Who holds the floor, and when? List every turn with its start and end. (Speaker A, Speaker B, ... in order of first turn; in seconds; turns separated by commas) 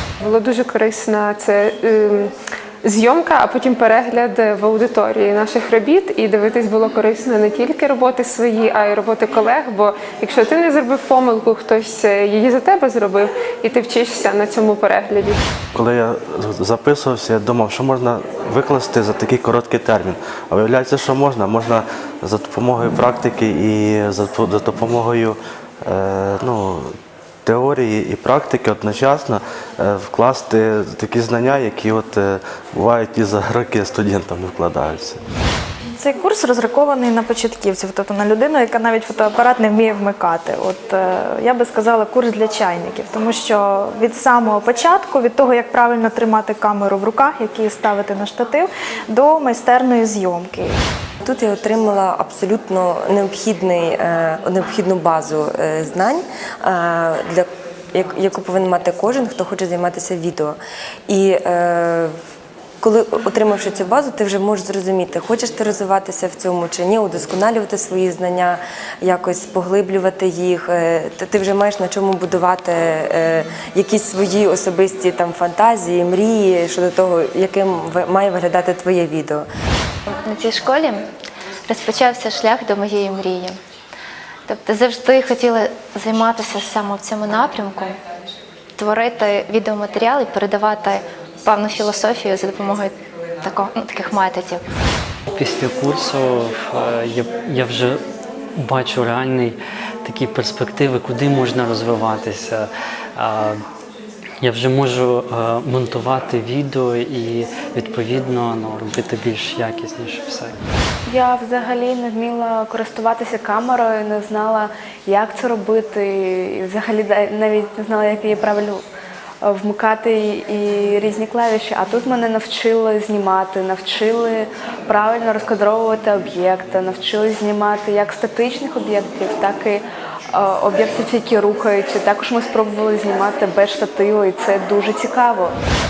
Speaker A: 0.2-2.3, Speaker A: 2.8-15.4, Speaker B: 15.8-26.9, Speaker B: 27.4-35.2, Speaker C: 36.0-50.8, Speaker D: 51.2-62.1, Speaker D: 62.8-79.5, Speaker E: 80.3-81.0, Speaker E: 81.7-83.6, Speaker E: 84.5-88.0, Speaker E: 88.8-92.9, Speaker E: 93.4-94.6, Speaker F: 95.3-98.0, Speaker F: 98.6-103.6, Speaker F: 104.4-110.6, Speaker G: 111.1-118.8, Speaker G: 119.4-135.6